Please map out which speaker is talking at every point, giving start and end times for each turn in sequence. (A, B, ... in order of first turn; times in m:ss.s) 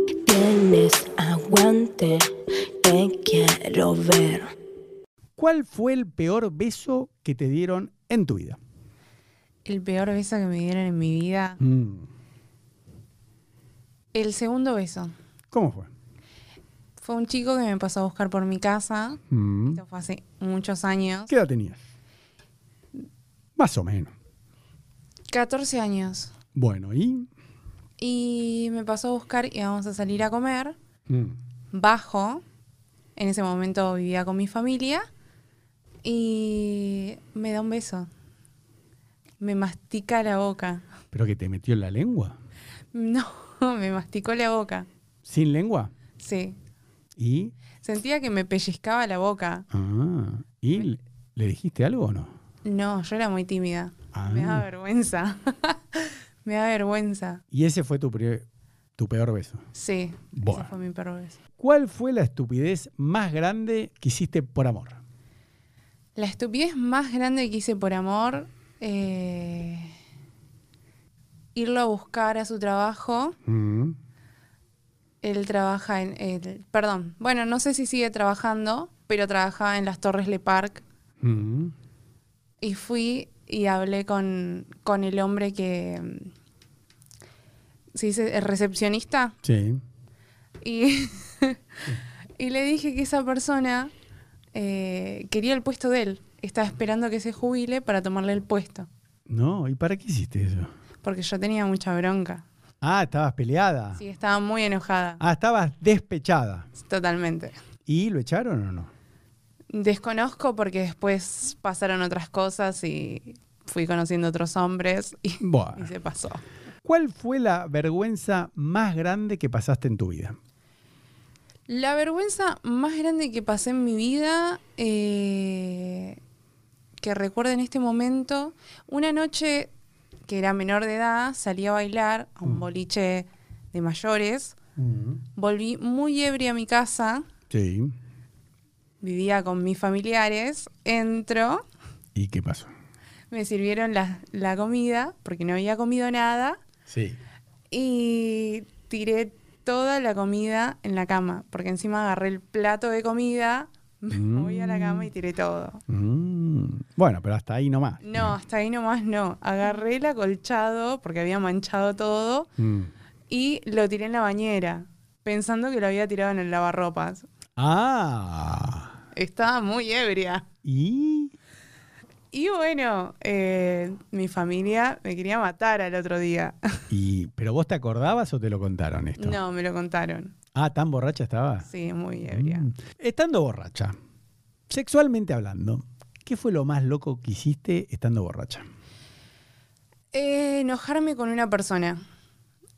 0:00.2-0:02.3 A
0:02.8-0:04.5 A
0:05.4-0:08.6 B
0:09.6-0:11.6 C
0:11.6-0:12.1 B
0:14.1-0:15.1 C
0:15.5-0:15.9 B
0:17.0-0:21.3 C
0:19.3-0:19.8 B
0:21.3-0:21.8 B
0:23.6-0:24.1 B
0:25.3-0:26.3 C
0:26.5-0:27.3 B
0:28.0-0:30.8 C
0:31.1-0:31.4 B
0:31.7-0:32.4 C
0:33.2-0:35.1 C
0:36.0-0:38.1 C
0:39.4-0:40.9 C
0:41.1-0:42.3 B
0:42.9-0:44.9 C
0:45.2-0:45.9 B
0:46.2-0:46.6 C
0:47.2-0:47.5 B
0:47.8-0:49.6 C
0:49.7-0:52.3 B
0:52.6-0:57.4 C
0:54.1-0:54.6 B
0:57.5-0:58.4 B
0:59.0-0:59.6 B
0:59.7-1:01.4 C
1:00.3-1:00.7 B
1:01.6-1:05.0 B
1:06.2-1:09.9 C
1:11.5-1:13.4 C
1:13.4-1:14.0 B
1:15.2-1:20.8 C
1:21.2-1:21.7 B
1:22.6-1:26.3 C
1:27.9-1:29.4 C
1:29.4-1:29.8 B
1:30.6-1:33.9 C
1:34.5-1:38.9 C
1:39.3-1:40.7 B
1:41.0-1:42.4 C
1:42.8-1:44.0 B
1:44.0-1:45.2 C
1:45.2-1:46.7 B
1:46.8-1:47.6 C
1:47.8-1:48.9 B
1:49.7-1:56.4 C
1:55.4-1:55.9 B
1:56.8-2:00.4 B
2:01.7-2:06.2 C
2:07.0-2:09.7 C
2:10.3-2:14.6 C
2:14.8-2:15.2 B
2:15.4-2:17.3 C
2:17.5-2:17.9 B
2:19.0-2:21.6 C
2:22.1-2:22.7 B
2:23.3-2:26.6 C
2:26.9-2:27.2 B
2:27.7-2:35.8 C
2:34.1-2:35.1 B
2:35.9-2:38.4 B
2:38.0-2:42.5 C
2:42.6-2:42.9 B
2:43.3-2:47.2 C
2:47.6-2:48.9 B
2:49.1-2:50.5 C
2:50.6-2:51.3 B
2:52.3-2:56.9 C
2:56.9-2:59.4 B
2:59.2-3:00.3 C
3:00.5-3:01.7 B
3:01.6-3:02.7 C
3:02.3-3:04.0 B
3:04.7-3:08.6 B
3:10.1-3:12.0 C